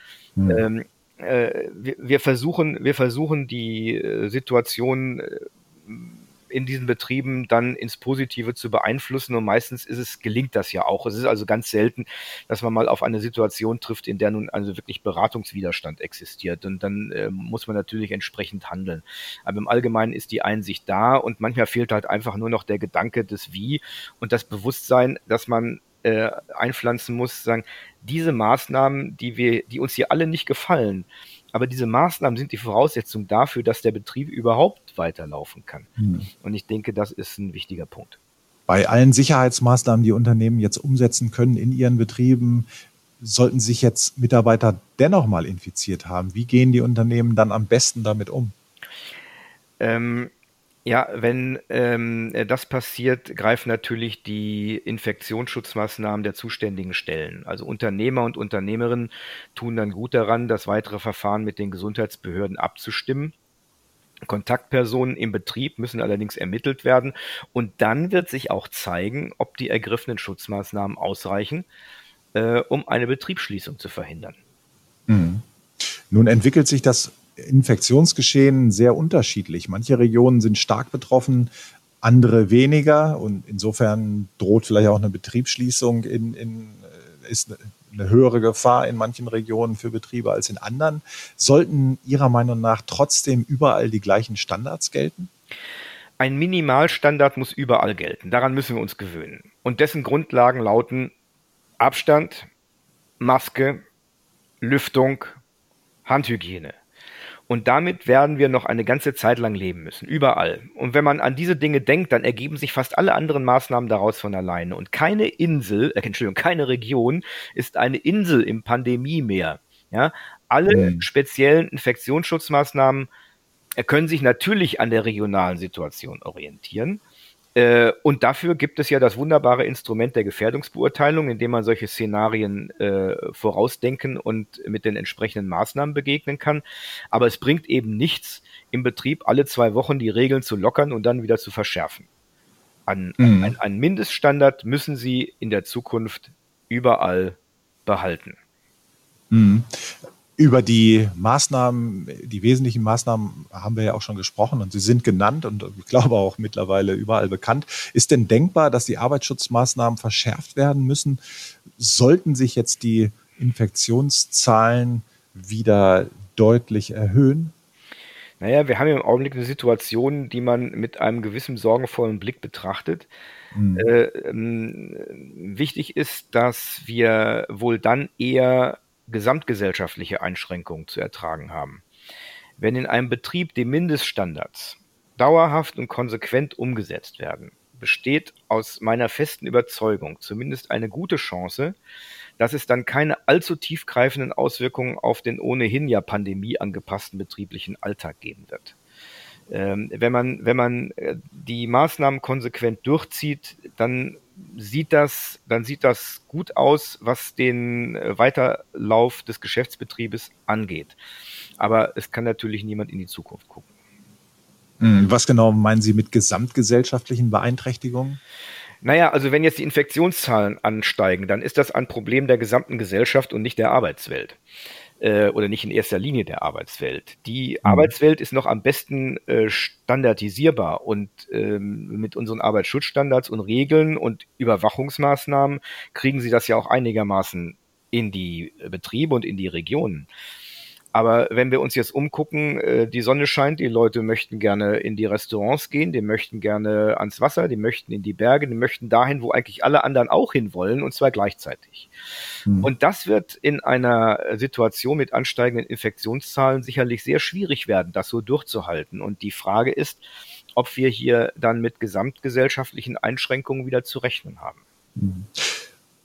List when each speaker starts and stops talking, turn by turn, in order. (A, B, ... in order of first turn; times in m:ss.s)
0:00.4-0:00.6 A
0:00.5-0:35.9 B
0:36.0-0:36.3 A
0:36.4-0:38.2 B
0:38.7-0:42.7 A
0:43.2-0:48.5 A
0:49.8-0:50.3 B
0:50.8-1:03.3 B
1:04.3-1:11.7 B
1:12.3-1:14.4 B
1:15.1-1:21.5 A
1:22.0-1:35.3 A
1:36.2-1:41.1 B
1:41.8-1:42.5 B
1:43.2-1:43.8 B
1:44.6-1:45.4 B
1:46.0-1:46.8 B
1:47.5-2:03.1 B
2:00.7-2:01.0 A
2:03.8-2:07.0 B
2:07.6-2:22.1 B
2:22.9-2:28.4 B
2:23.2-2:23.5 A
2:29.3-2:47.5 A
2:48.4-2:53.1 B
2:53.5-2:53.9 A
2:53.8-3:01.8 B
3:02.6-3:11.8 B
3:12.4-3:18.7 B
3:19.5-3:31.0 B
3:31.6-3:33.6 B
3:34.8-3:38.2 A
3:38.8-3:44.4 B
3:45.0-4:00.1 B
3:47.6-3:47.9 A
4:00.9-4:11.9 B
4:12.6-4:20.0 B
4:20.6-4:24.6 B
4:25.0-4:25.6 A